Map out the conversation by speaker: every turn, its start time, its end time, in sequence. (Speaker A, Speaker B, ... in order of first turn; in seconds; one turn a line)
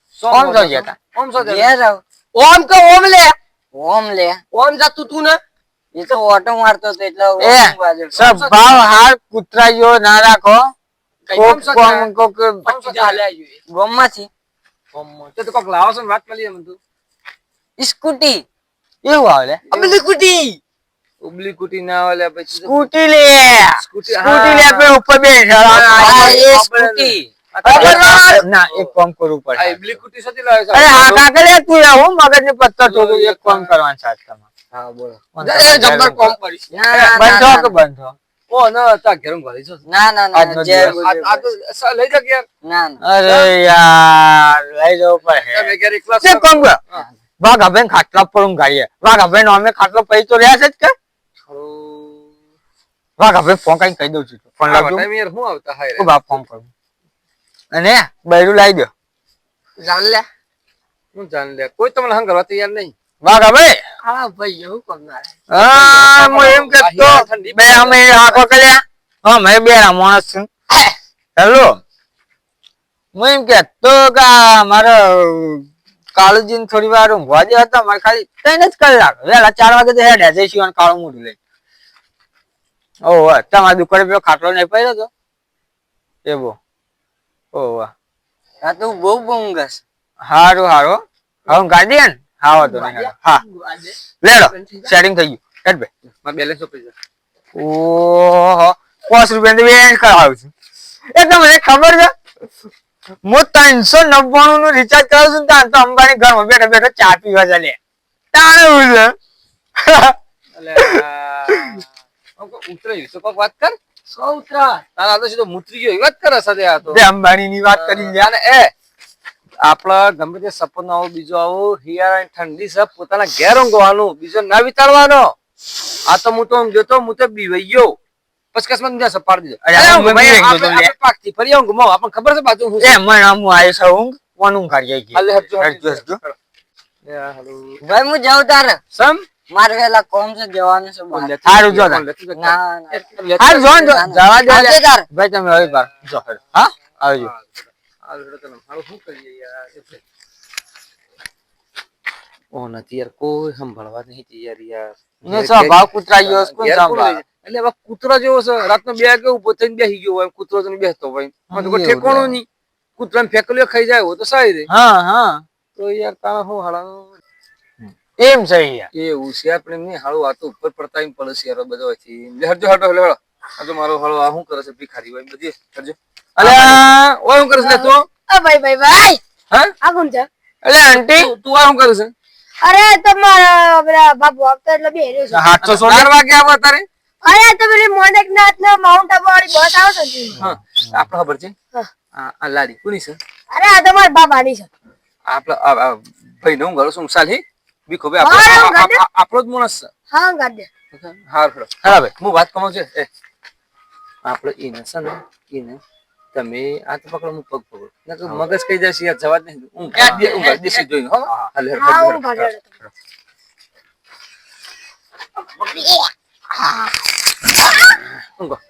Speaker A: 0.2-1.7
Speaker B: 0.3-0.9
Speaker C: 1.4-2.0
Speaker D: 2.4-3.4
Speaker C: 3.7-4.4
Speaker D: 4.5-5.4
Speaker C: 5.9-8.2
Speaker B: 7.4-10.6
Speaker A: 8.1-8.8
Speaker A: 11.3-12.1
Speaker B: 11.3-12.7
Speaker A: 12.7-13.2
Speaker D: 12.7-13.6
Speaker C: 13.7-14.3
Speaker A: 14.9-16.8
Speaker C: 17.8-18.4
Speaker B: 19.0-19.7
Speaker A: 19.7-20.0
Speaker C: 19.7-20.0
Speaker D: 19.8-20.5
Speaker A: 21.2-22.9
Speaker B: 22.6-26.7
Speaker A: 23.5-25.0
Speaker A: 25.6-28.9
Speaker C: 25.8-28.0
Speaker B: 27.6-30.0
Speaker A: 29.6-31.3
Speaker B: 30.7-34.5
Speaker A: 32.8-33.8
Speaker A: 34.7-37.3
Speaker B: 35.4-36.4
Speaker C: 36.7-37.8
Speaker B: 37.1-38.2
Speaker A: 38.5-39.8
Speaker C: 39.9-41.2
Speaker B: 40.3-41.4
Speaker A: 40.9-42.5
Speaker C: 42.6-43.0
Speaker B: 43.0-46.8
Speaker A: 43.2-43.6
Speaker A: 45.3-47.0
Speaker B: 47.4-51.0
Speaker A: 51.5-52.3
Speaker B: 53.2-55.1
Speaker A: 54.6-56.4
Speaker B: 56.0-56.7
Speaker B: 57.7-58.9
Speaker D: 59.8-60.3
Speaker A: 61.1-62.9
Speaker B: 63.2-63.8
Speaker D: 64.0-65.4
Speaker B: 65.5-71.8
Speaker A: 65.6-68.5
Speaker B: 73.2-75.7
Speaker B: 76.2-81.3
Speaker B: 83.0-85.1
Speaker B: 86.3-86.6
Speaker B: 87.5-87.9
Speaker C: 88.6-89.8
Speaker B: 90.2-93.4
Speaker D: 92.5-95.0
Speaker B: 94.2-95.9
Speaker A: 96.2-97.0
Speaker B: 97.5-100.5
Speaker B: 101.1-102.1
Speaker B: 103.2-107.8
Speaker B: 108.3-109.1
Speaker B: 109.8-110.2
Speaker A: 110.6-113.8
Speaker D: 114.1-114.8
Speaker A: 115.0-117.0
Speaker B: 116.9-118.3
Speaker A: 117.7-118.7
Speaker A: 119.6-125.3
Speaker A: 126.1-128.0
Speaker A: 128.5-133.0
Speaker B: 129.6-130.9
Speaker B: 132.8-136.2
Speaker A: 135.1-136.4
Speaker A: 137.1-137.8
Speaker C: 137.8-138.8
Speaker A: 138.9-139.3
Speaker C: 139.5-141.3
Speaker A: 141.1-144.0
Speaker B: 141.4-142.0
Speaker C: 142.3-143.1
Speaker B: 143.4-147.3
Speaker C: 143.9-145.1
Speaker A: 147.2-150.0
Speaker A: 152.5-162.5
Speaker B: 155.3-157.2
Speaker B: 161.5-162.4
Speaker A: 163.0-164.7
Speaker B: 164.7-165.4
Speaker A: 165.8-167.2
Speaker B: 167.8-168.9
Speaker A: 168.9-178.1
Speaker B: 176.4-176.9
Speaker E: 178.3-179.2
Speaker E: 179.8-180.3
Speaker B: 180.6-181.3
Speaker A: 180.9-182.1
Speaker E: 182.6-185.5
Speaker B: 185.3-186.1
Speaker A: 185.6-186.9
Speaker E: 187.2-190.4
Speaker A: 190.4-191.5
Speaker A: 192.2-193.2
Speaker E: 193.5-194.7
Speaker A: 195.3-199.9
Speaker E: 198.2-199.0
Speaker E: 200.1-200.7
Speaker A: 200.9-203.1
Speaker B: 201.8-202.1
Speaker A: 204.3-205.8
Speaker A: 206.3-212.9
Speaker B: 209.9-210.6
Speaker E: 211.8-212.4